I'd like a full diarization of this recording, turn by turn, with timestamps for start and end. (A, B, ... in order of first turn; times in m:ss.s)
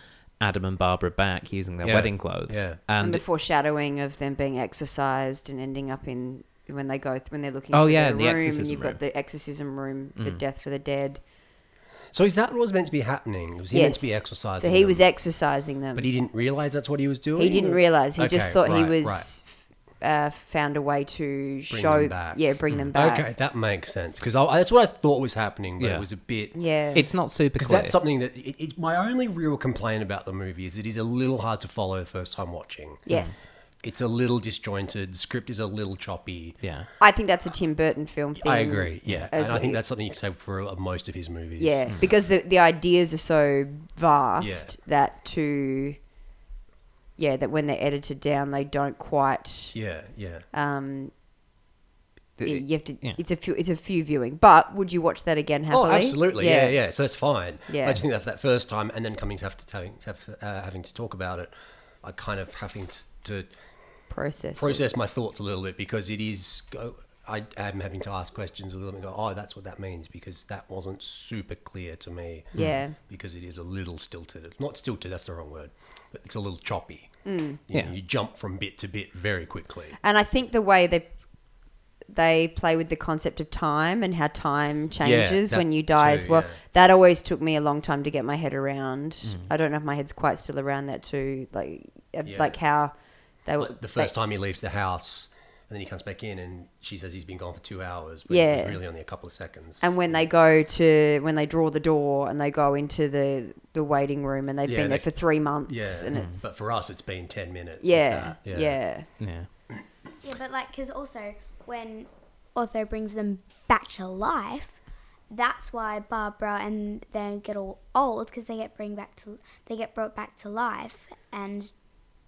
0:00.4-0:03.2 A
0:01.8-0:02.8 B
0:03.0-0:11.2 C
0:07.7-0:09.0 A
0:10.2-0:10.4 A
0:12.1-0:15.1 B
0:13.7-0:16.1 C
0:16.0-0:19.3 B
0:17.4-0:19.5 C
0:20.0-0:23.3 C
0:21.7-0:26.6 B
0:25.8-0:26.1 A
0:26.6-0:27.1 C
0:26.9-0:28.0 A
0:27.6-0:33.1 B
0:33.1-0:33.5 C
0:33.1-0:33.4 A
0:33.8-0:36.6 B
0:36.6-0:36.9 A
0:37.0-0:39.8 C
0:38.4-0:42.1 B
0:41.6-0:46.0 C
0:44.4-0:44.8 B
0:47.2-0:49.8 C
0:49.7-0:50.4 B
0:50.5-0:51.1 C
0:52.4-0:53.2 A
0:52.4-0:56.8 C
0:55.7-1:03.5 B
0:57.7-0:58.0 C
1:04.1-1:04.8 C
1:04.6-1:20.0 B
1:12.5-1:12.8 A
1:12.6-1:13.0 C
1:17.2-1:17.6 C
1:20.0-1:21.1 C
1:22.1-1:32.9 C
1:25.0-1:26.6 B
1:29.2-1:29.5 A
1:32.2-1:32.6 B
1:33.4-1:34.1 C
1:33.6-1:40.0 B
1:38.3-1:38.8 C
1:39.8-1:46.4 C
1:44.6-1:45.1 B
1:45.7-1:48.8 B
1:46.1-1:46.4 A
1:47.8-1:49.1 C
1:49.2-1:49.5 A
1:50.2-1:54.8 D
1:55.3-2:01.7 D